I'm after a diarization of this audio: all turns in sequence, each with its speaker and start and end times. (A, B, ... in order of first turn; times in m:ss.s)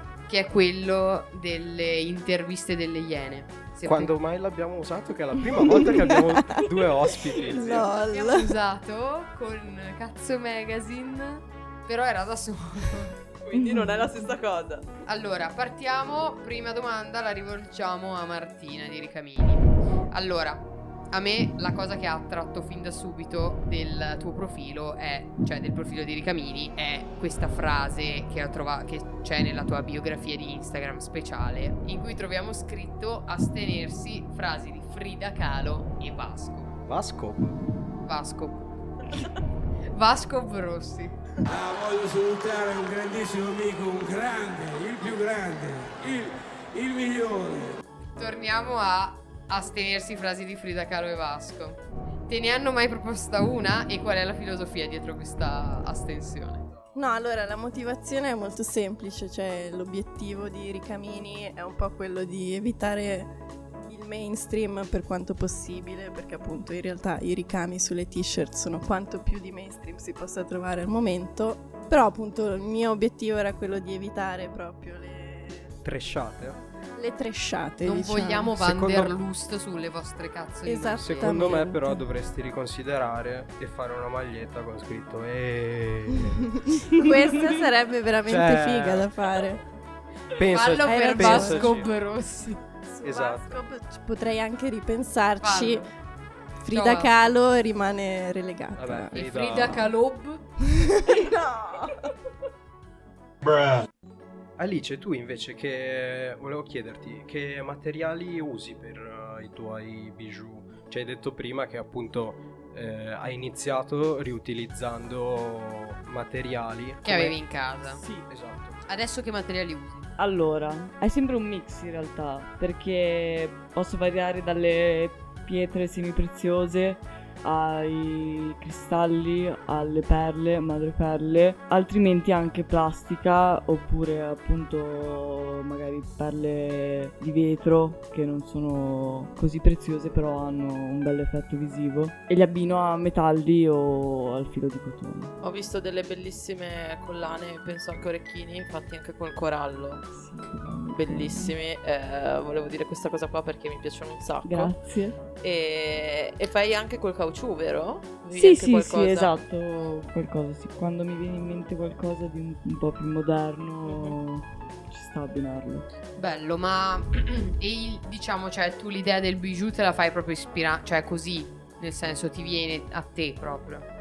0:00.3-0:04.1 A
0:03.8-0:07.9 B
0:06.1-0:06.7 C
0:07.2-0:08.6 C
0:08.1-0:13.2 A
0:13.4-0:14.9 D
0:13.5-0:14.3 E
0:15.1-0:36.7 A
0:36.9-0:37.6 B
0:38.0-0:39.3 A
0:39.9-0:41.2 A
0:41.4-0:47.8 F
0:48.2-0:56.7 A
0:57.0-1:03.3 C
1:03.8-1:15.8 C
1:15.8-1:16.6 B
1:17.0-1:18.5 C
1:17.8-1:21.6 A
1:18.6-1:19.2 B
1:20.6-1:22.1 C
1:21.0-1:26.5 B
1:26.3-1:29.6 C
1:28.3-1:29.1 B
1:30.4-1:31.9 B
1:30.5-1:32.6 A
1:30.8-1:31.8 C
1:32.8-1:35.9 C
1:33.0-1:33.6 B
1:35.4-1:35.9 A
1:36.6-1:39.8 C
1:36.7-1:37.1 A
1:38.8-1:39.9 B
1:39.1-1:40.4 A
1:40.6-1:42.0 C
1:43.4-1:43.9 F
1:44.6-1:57.4 B
1:57.0-1:58.0 A
1:57.8-1:58.3 E
1:58.3-1:58.8 B
1:58.8-2:00.1 A
2:00.2-2:25.4 E
2:25.4-2:30.1 D
2:30.1-2:31.6 E
2:30.9-2:34.8 D
2:34.4-2:35.2 E
2:35.4-2:39.3 D
2:38.3-2:45.9 E
2:43.9-2:44.1 D
2:46.2-2:53.9 A